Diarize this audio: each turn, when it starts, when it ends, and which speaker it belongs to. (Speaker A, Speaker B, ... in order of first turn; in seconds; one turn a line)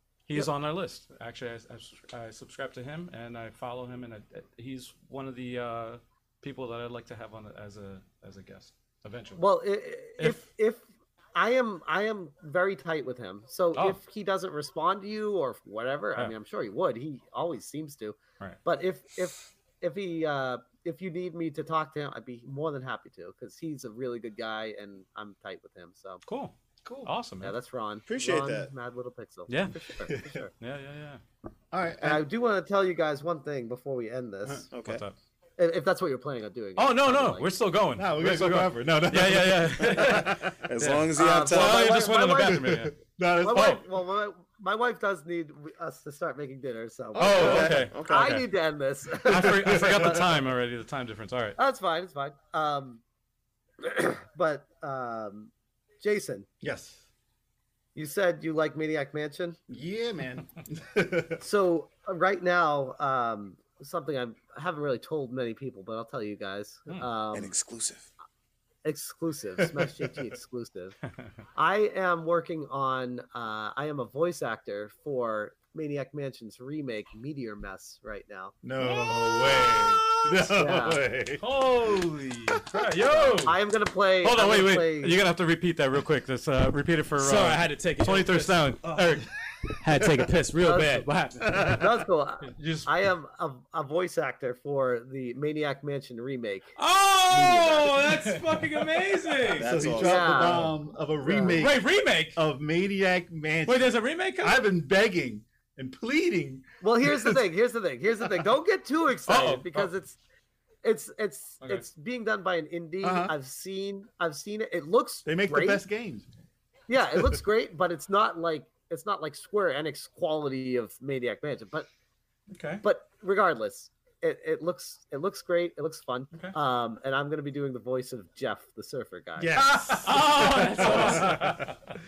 Speaker A: 0.3-9.5
Speaker B: 9.4-26.2
Speaker A: 10.2-10.4
Speaker A: 13.7-14.0
Speaker A: 26.2-27.6
Speaker B: 27.4-30.5
Speaker C: 28.1-28.7
Speaker A: 29.5-30.0
Speaker D: 30.0-30.4
Speaker A: 30.5-31.2
Speaker D: 31.7-32.3
Speaker B: 32.0-34.7
Speaker C: 34.7-35.0
Speaker A: 34.8-35.2
Speaker B: 35.6-37.5
Speaker A: 36.8-43.8
Speaker D: 38.0-40.7
Speaker C: 40.6-42.0
Speaker B: 41.1-42.8
Speaker D: 42.5-43.8
Speaker B: 43.4-50.3
Speaker C: 47.1-48.3
Speaker A: 47.2-48.5
Speaker A: 49.1-51.6
Speaker D: 49.4-50.2
Speaker B: 51.6-53.0
Speaker B: 53.8-56.5
Speaker D: 56.6-57.1
Speaker B: 58.0-59.6
Speaker D: 59.7-61.4
Speaker B: 61.4-67.5
Speaker C: 67.3-68.1
Speaker B: 68.8-71.0
Speaker D: 69.6-70.1
Speaker B: 71.5-78.5
Speaker D: 78.6-82.0
Speaker A: 78.8-80.4
Speaker B: 80.5-81.0
Speaker A: 81.3-83.6
Speaker D: 82.5-82.8
Speaker B: 83.0-85.2
Speaker A: 84.2-89.3
Speaker E: 87.2-88.6
Speaker D: 88.8-89.3
Speaker E: 89.8-91.5
Speaker D: 90.0-90.3
Speaker B: 90.6-91.1
Speaker D: 91.5-91.8
Speaker B: 91.8-96.8
Speaker A: 92.4-92.9
Speaker E: 96.8-99.8
Speaker B: 97.3-98.3
Speaker C: 99.5-100.6
Speaker D: 99.6-107.4
Speaker B: 99.8-101.7
Speaker E: 101.5-102.4
Speaker E: 103.7-104.7
Speaker B: 106.8-110.2
Speaker A: 109.3-109.9
Speaker B: 110.8-115.8
Speaker A: 111.6-111.9
Speaker D: 113.0-113.3
Speaker D: 115.2-116.3
Speaker B: 116.9-121.9
Speaker D: 117.1-117.4
Speaker A: 122.5-122.8
Speaker B: 122.8-129.6
Speaker D: 129.4-131.8
Speaker A: 129.7-131.8
Speaker E: 130.0-131.5